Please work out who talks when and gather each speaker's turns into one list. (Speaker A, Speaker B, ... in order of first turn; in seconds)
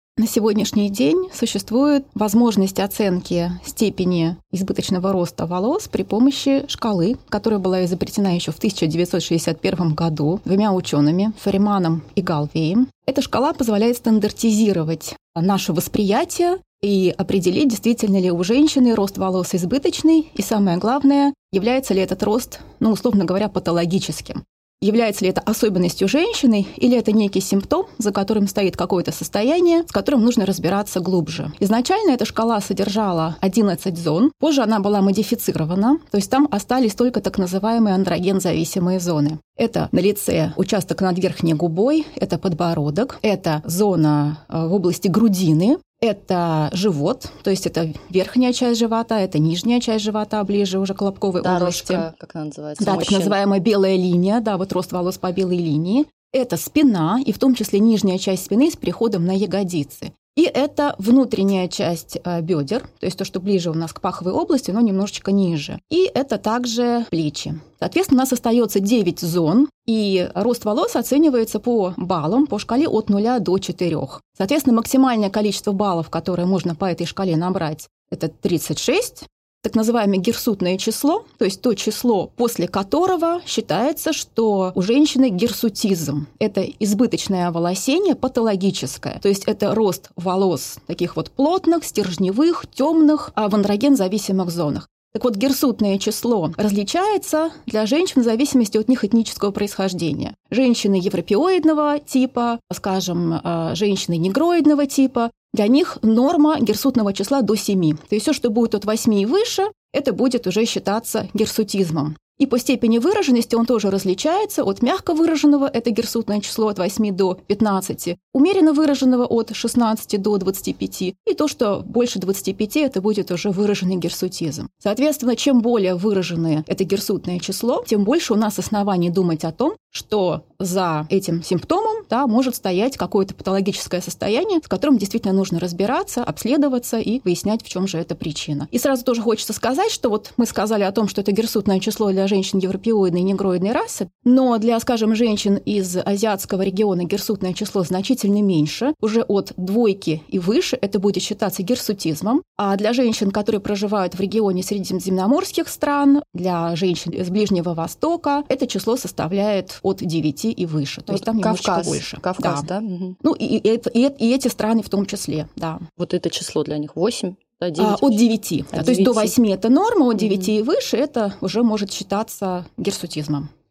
Speaker A: 0.2-52.1, 52.8-162.7, 163.2-165.8, 167.8-173.5
Speaker B: 51.4-53.4, 161.1-163.2, 166.0-169.3, 170.2-170.5